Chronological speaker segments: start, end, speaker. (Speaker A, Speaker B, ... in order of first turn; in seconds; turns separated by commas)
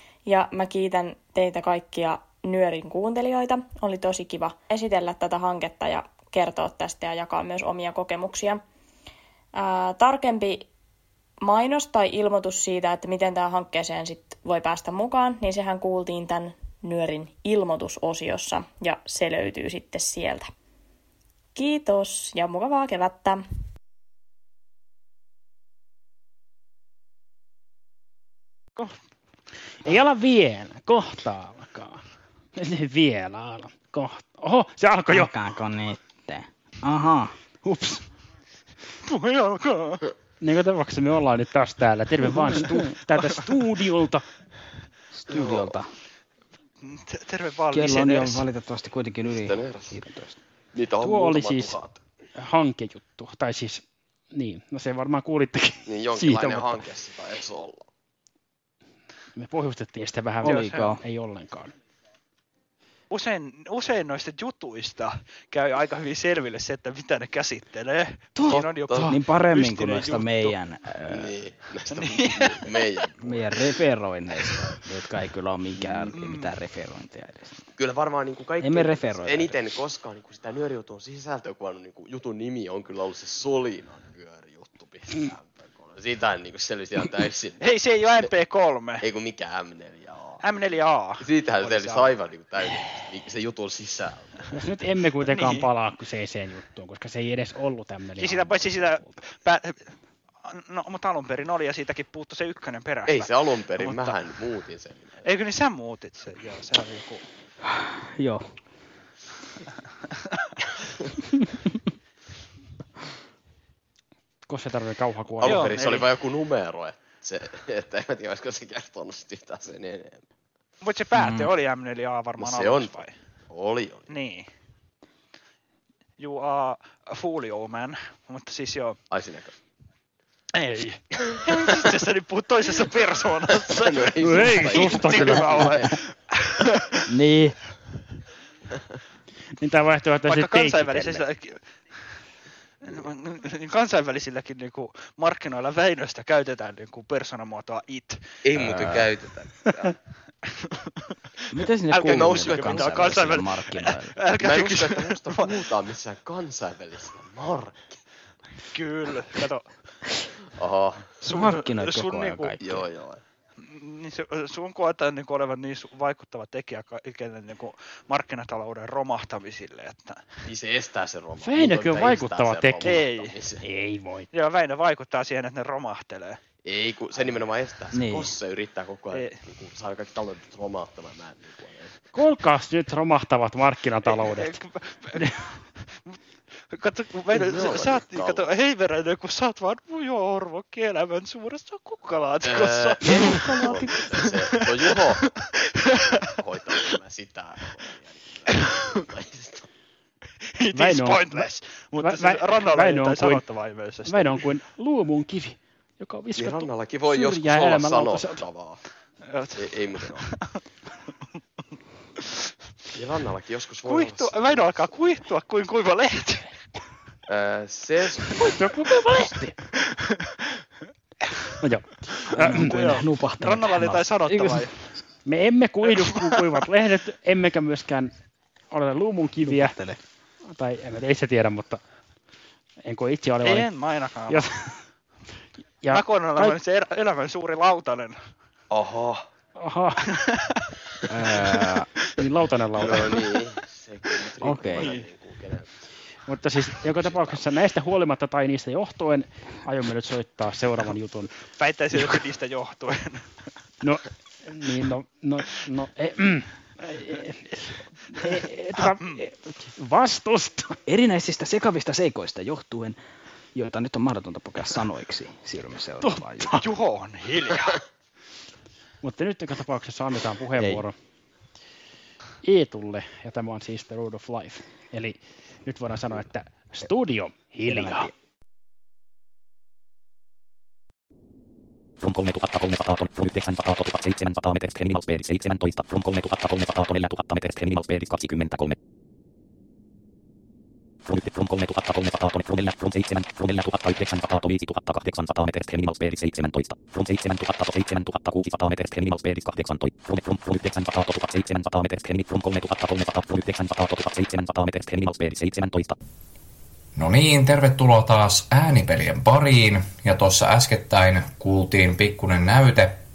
Speaker A: 0.3-8.6, Speaker A: 9.6-10.7, Speaker A: 11.4-20.5, Speaker A: 21.6-23.4, Speaker B: 29.8-32.0, Speaker B: 32.6-35.3, Speaker C: 35.1-37.3, Speaker B: 37.6-38.0, Speaker D: 39.0-40.0, Speaker B: 40.4-44.3, Speaker C: 45.1-45.9, Speaker D: 46.8-48.5, Speaker C: 47.7-50.4, Speaker E: 49.4-50.0, Speaker E: 50.7-52.0, Speaker B: 51.0-51.8, Speaker B: 52.4-56.9, Speaker E: 55.9-57.9, Speaker B: 59.4-61.7, Speaker C: 60.4-61.0, Speaker D: 60.5-60.9, Speaker D: 63.1-70.6, Speaker C: 68.4-71.3, Speaker E: 68.5-69.2, Speaker E: 71.1-73.5, Speaker D: 71.9-72.8, Speaker C: 73.2-77.6, Speaker E: 75.8-76.2, Speaker D: 76.1-76.5, Speaker E: 77.8-87.6, Speaker C: 78.6-79.6, Speaker D: 87.6-89.0, Speaker E: 89.0-90.4, Speaker D: 90.4-92.2, Speaker E: 91.2-94.4, Speaker B: 94.5-99.2, Speaker D: 95.3-95.6, Speaker D: 98.2-99.9, Speaker D: 100.5-104.2, Speaker E: 103.1-105.3, Speaker D: 105.2-107.2, Speaker C: 107.7-108.4, Speaker B: 114.5-115.8, Speaker E: 115.4-120.2, Speaker D: 115.4-116.1, Speaker D: 120.8-123.1, Speaker C: 121.1-121.5, Speaker E: 122.4-124.1, Speaker D: 124.1-124.5, Speaker D: 126.2-129.0, Speaker E: 129.1-129.5, Speaker D: 130.6-130.9, Speaker E: 131.3-131.8, Speaker D: 131.5-135.9, Speaker E: 133.6-136.0, Speaker B: 134.2-135.8, Speaker C: 137.1-137.6, Speaker B: 139.6-141.3, Speaker D: 140.3-141.6, Speaker D: 142.8-148.2, Speaker E: 148.4-149.9, Speaker C: 148.6-149.1, Speaker C: 151.5-154.2, Speaker D: 151.9-155.5, Speaker E: 152.0-153.4, Speaker E: 154.4-158.0, Speaker D: 158.7-159.7, Speaker E: 160.6-161.1, Speaker C: 161.2-162.8, Speaker D: 161.2-162.6, Speaker E: 162.6-163.2, Speaker D: 163.6-170.2, Speaker E: 170.5-173.6, Speaker B: 171.4-173.1, Speaker D: 172.8-173.3, Speaker B: 173.6-174.3, Speaker D: 174.3-176.4, Speaker E: 176.7-182.0, Speaker C: 177.9-178.3, Speaker D: 179.1-179.4, Speaker B: 182.1-184.6, Speaker D: 184.1-185.2, Speaker D: 186.7-193.8, Speaker E: 187.3-188.5, Speaker E: 192.4-195.3, Speaker B: 193.2-194.0, Speaker E: 196.2-199.7, Speaker D: 200.7-204.4, Speaker B: 200.7-203.4, Speaker B: 204.1-208.4, Speaker E: 206.3-208.8, Speaker D: 209.3-209.7, Speaker E: 209.6-210.3, Speaker E: 212.9-215.2, Speaker D: 213.8-216.5, Speaker E: 217.3-218.7, Speaker B: 218.6-219.5, Speaker B: 221.6-222.8, Speaker C: 222.3-225.0, Speaker D: 222.4-224.7, Speaker B: 225.3-228.1, Speaker B: 228.7-229.8, Speaker C: 229.4-230.0, Speaker B: 230.5-231.8, Speaker B: 232.8-233.7, Speaker D: 233.4-234.5, Speaker B: 234.3-234.8, Speaker B: 235.8-236.6, Speaker D: 235.9-238.2, Speaker E: 238.7-239.3, Speaker B: 239.6-240.0, Speaker C: 241.1-241.9, Speaker B: 242.2-243.1, Speaker E: 242.8-245.9, Speaker C: 244.4-245.0, Speaker B: 246.3-251.3, Speaker E: 246.9-247.4, Speaker D: 251.6-253.3, Speaker B: 253.8-260.8, Speaker C: 260.9-263.0, Speaker C: 263.6-266.6, Speaker B: 266.0-266.6, Speaker D: 266.6-267.8, Speaker B: 269.0-271.0, Speaker C: 270.6-270.9, Speaker B: 272.4-278.1, Speaker C: 277.6-278.1, Speaker F: 282.0-288.8, Speaker F: 291.1-306.0, Speaker G: 306.9-313.0